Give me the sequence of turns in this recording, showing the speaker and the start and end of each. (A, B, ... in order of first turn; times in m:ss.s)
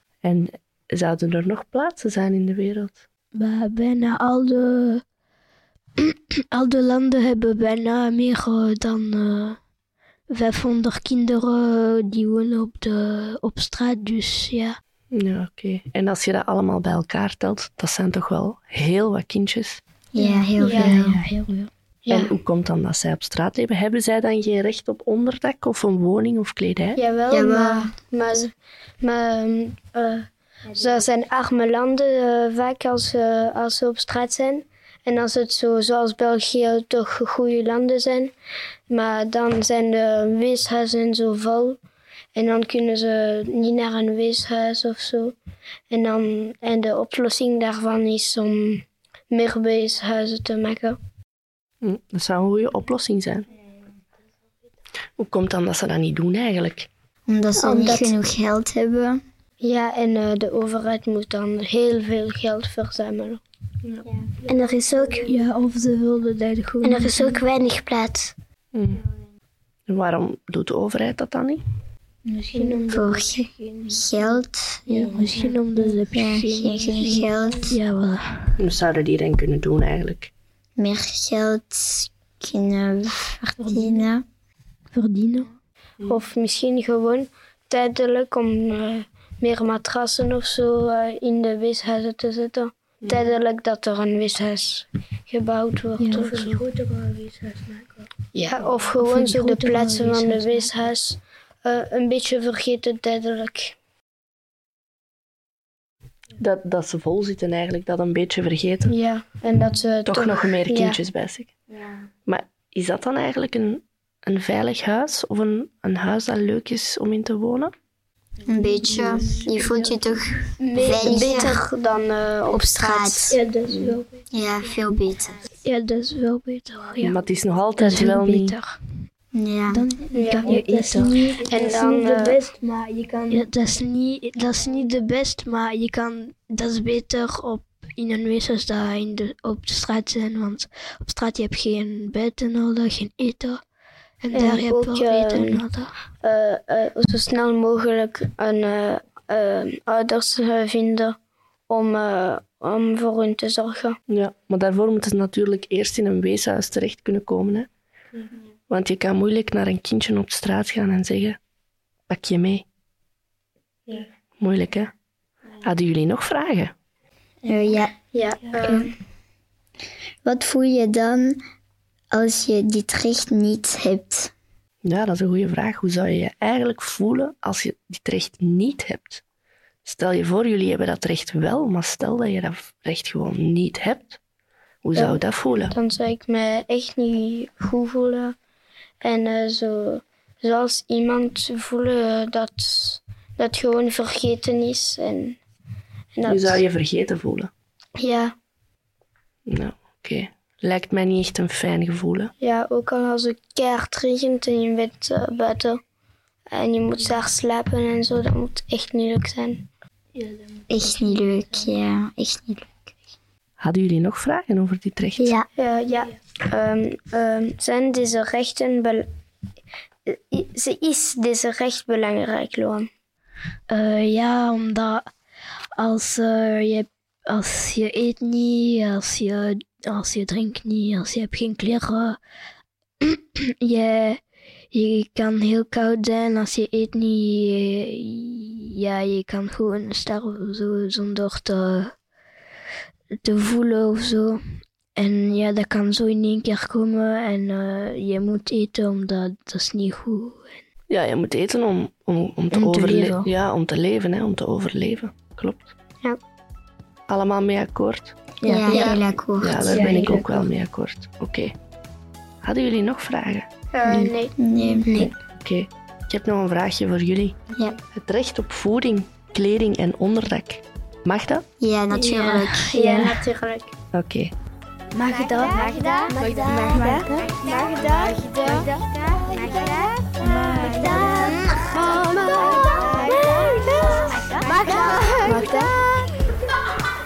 0:00.2-0:03.0 A
0:03.3-0:05.0 B
0:06.0-0:09.6 B
0:10.3-0:14.8 B
0:15.1-0:19.8 A
0:20.1-0:21.2 C
0:20.2-0:21.7 B
0:20.6-0:21.0 D
0:22.0-0:22.3 D
0:22.1-0:27.0 A
0:27.0-0:38.3 D
0:27.3-0:27.9 C
0:38.9-0:41.8 D
0:42.3-0:45.4 D
0:45.9-0:51.0 D
0:51.8-0:53.5 A
0:55.2-0:56.9 A
0:57.3-0:59.2 C
0:57.6-0:58.1 D
0:59.6-1:03.4 D
1:04.6-1:05.2 E
1:05.2-1:07.4 B
1:07.6-1:08.1 E
1:08.7-1:09.0 A
1:09.9-1:11.6 A
1:12.3-1:14.0 B
1:12.5-1:13.1 D
1:12.9-1:15.1 C
1:14.9-1:18.6 B
1:16.1-1:17.8 C
1:18.6-1:20.3 A
1:20.8-1:24.2 C
1:24.9-1:25.5 B
1:26.0-1:36.6 D
1:36.0-1:37.8 B
1:38.3-1:43.8 D
1:39.0-1:40.7 B
1:46.4-1:48.9 A
1:48.9-1:51.0 D
1:50.0-1:51.5 A
1:52.2-1:57.7 A
1:58.4-2:01.6 C
2:00.6-2:03.2 D
2:02.5-2:03.4 C
2:03.3-2:04.0 B
2:03.7-2:04.0 A
2:04.3-2:05.5 C
2:05.6-2:07.2 B
2:07.0-2:08.6 A
2:07.8-2:08.8 B
2:09.3-2:09.9 C
2:09.7-2:23.6 B
2:10.1-2:10.6 D
2:11.4-2:12.4 D
2:24.2-2:25.9 B
2:24.3-2:25.6 D
2:26.2-2:31.1 D
2:31.7-2:34.0 D
2:34.1-2:37.7 A
2:38.7-2:41.4 A
2:42.1-2:42.6 A
2:44.4-2:44.9 A
2:45.6-2:46.7 A
2:47.4-2:48.0 C
2:48.1-2:48.9 D
2:48.6-2:48.9 C
2:50.2-2:51.4 C
2:52.1-2:54.3 C
2:54.8-2:59.2 A
2:59.8-3:04.2 A
3:04.8-3:05.7 A
3:04.9-3:08.4 D
3:09.0-3:15.4 D
3:16.1-3:16.6 D
3:16.2-3:17.5 A
3:18.0-3:18.3 D
3:19.5-3:22.3 A
3:22.4-3:25.8 D
3:26.5-3:29.6 D
3:30.7-3:32.9 C
3:33.6-3:35.3 A
3:35.5-3:39.1 D
3:40.1-3:42.9 D
3:43.7-3:45.1 B
3:45.8-3:52.2 B
3:53.0-3:54.2 B
3:54.7-4:01.9 B
4:03.2-4:04.4 B
4:04.9-4:10.6 B
4:10.9-4:15.7 A
4:12.5-4:13.3 B
4:17.1-4:18.1 A
4:18.4-4:18.9 B
4:18.4-4:20.3 C
4:18.5-4:19.0 D
4:19.4-4:21.5 A
4:19.7-4:20.4 B
4:22.4-4:23.5 A
4:23.7-4:25.1 D
4:24.4-4:24.9 C
4:24.9-4:27.4 A
4:27.9-4:31.4 A
4:31.6-4:32.7 C
4:31.9-4:33.2 B
4:32.7-4:33.7 D
4:33.9-4:34.3 A
4:34.9-4:37.4 B
4:36.1-4:38.7 D
4:37.8-4:41.2 E
4:40.2-4:41.4 B
4:41.6-4:45.7 D
4:42.1-4:45.6 E
4:45.0-4:45.6 B